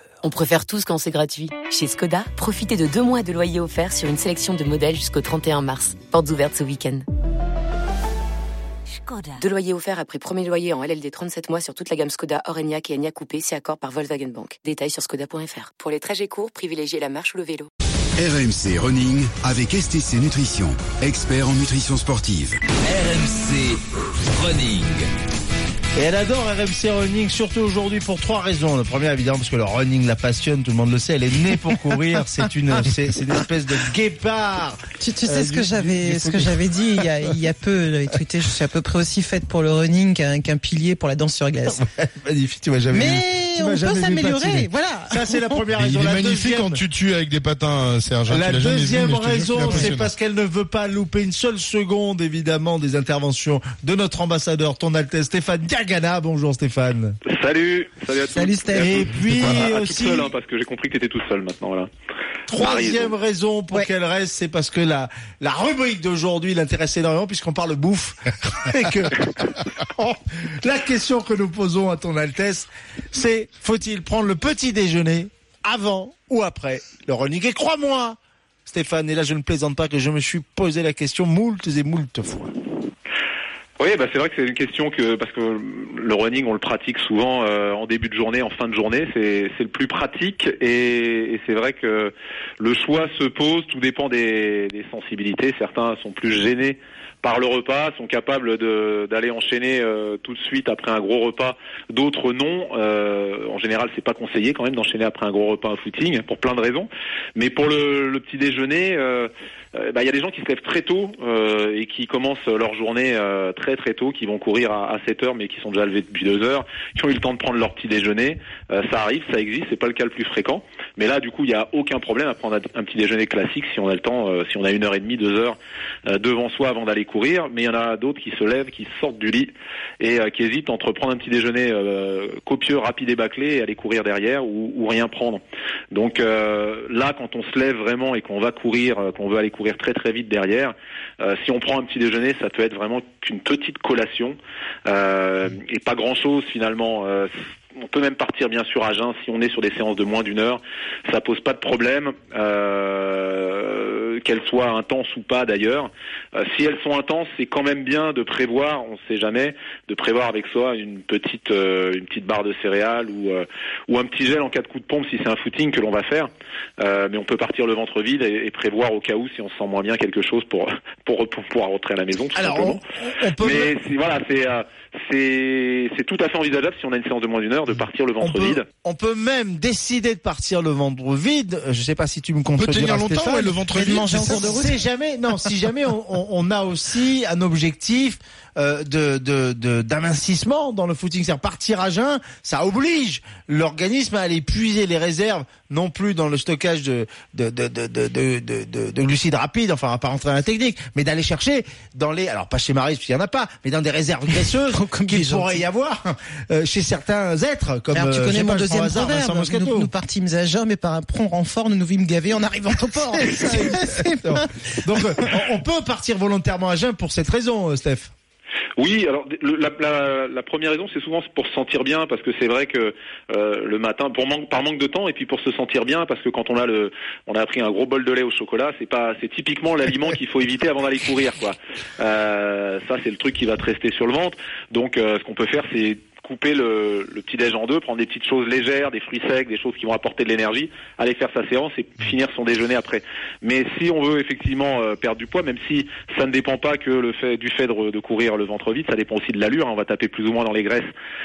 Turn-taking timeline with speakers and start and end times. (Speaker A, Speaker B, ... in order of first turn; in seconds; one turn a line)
Speaker A: 0.2-7.0
Speaker A: 9.3-17.7
Speaker B: 18.2-22.6
Speaker B: 23.3-23.6
Speaker B: 24.4-25.0
Speaker C: 25.9-36.6
Speaker D: 35.0-41.8
Speaker C: 41.7-46.8
Speaker D: 42.9-45.7
Speaker E: 45.8-50.1
Speaker C: 48.3-57.2
Speaker D: 49.6-49.9
Speaker F: 57.2-61.9
Speaker D: 58.3-59.0
Speaker C: 58.8-60.3
Speaker C: 62.5-82.5
Speaker F: 62.5-63.1
Speaker F: 83.8-125.6
Speaker F: 126.1-172.8
Speaker C: 172.3-173.7
Speaker F: 173.4-178.6
Speaker C: 178.2-209.9
Speaker E: 182.6-184.5
Speaker D: 183.8-184.8
Speaker D: 204.3-205.6
Speaker D: 207.9-214.5
Speaker C: 213.1-218.1
Speaker F: 218.8-250.9